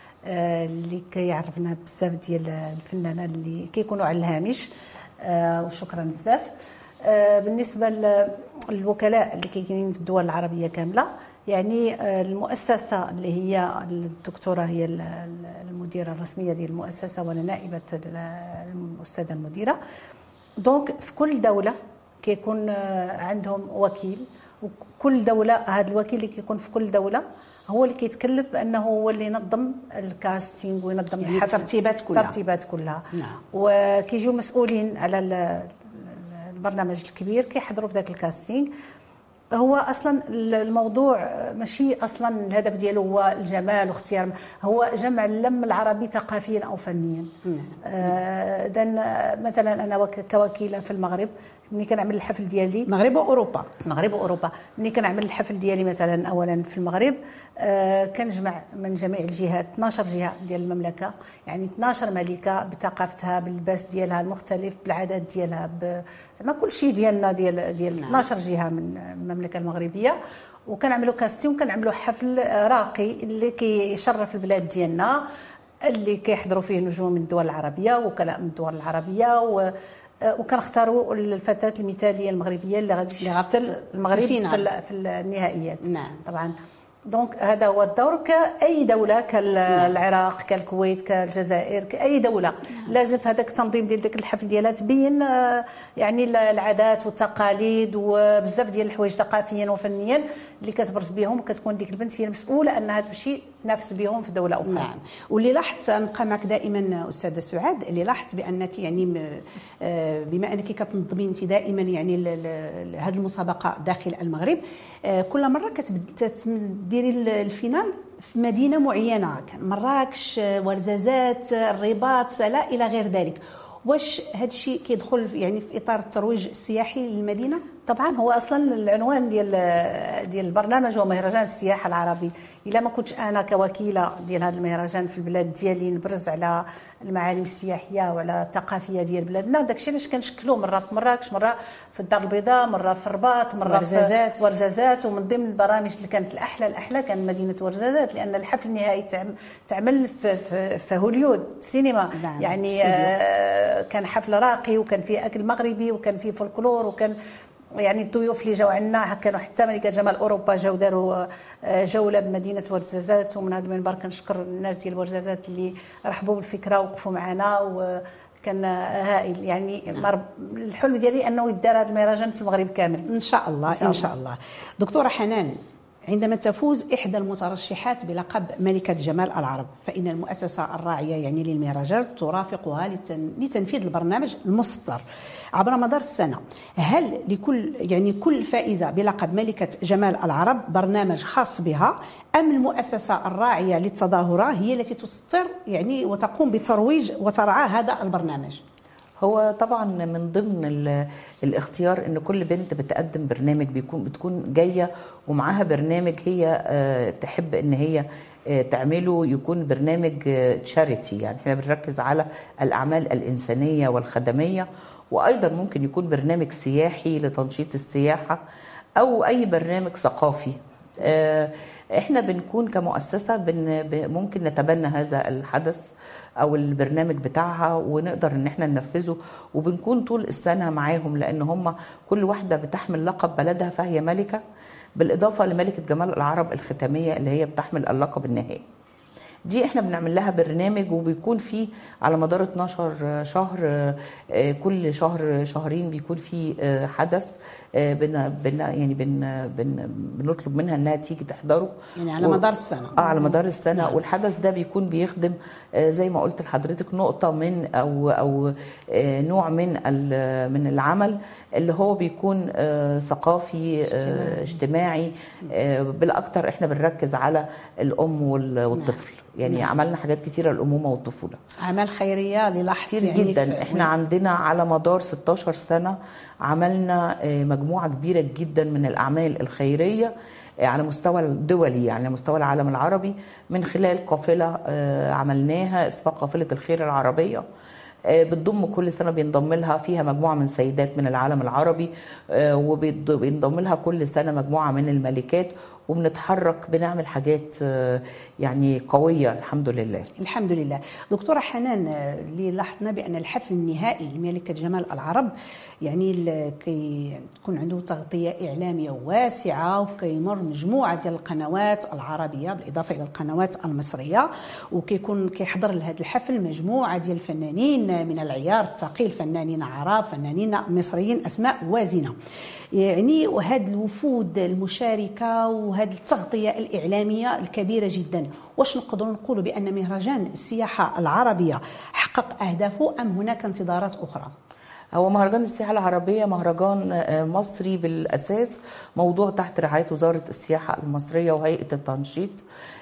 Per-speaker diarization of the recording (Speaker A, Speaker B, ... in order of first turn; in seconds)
Speaker A: 0.2-4.7, 5.2-19.8, 20.6-38.7, 39.5-47.3, 47.8-52.9, 53.8-75.2, 75.8-79.7, 80.2-86.5, 87.1-104.9, 127.9-157.2, 157.8-173.1, 173.7-174.1
Speaker B: 31.2-32.4, 33.1-33.4, 47.5-47.8, 52.9-53.7, 67.9-68.2, 84.1-84.7, 85.8-86.2, 104.6-127.6, 143.6-144.4, 152.1-153.1, 173.1-175.6, 176.1-185.0, 185.6-198.6, 252.0-253.9, 263.9-264.5, 268.7-269.7, 271.6-273.9, 300.2-305.3, 305.8-322.1, 322.7-334.3
Speaker C: 199.2-218.4, 219.0-234.4, 234.9-238.6, 239.4-252.4, 252.9-271.4, 272.9-280.1, 280.6-287.4, 288.1-300.1, 334.9-342.4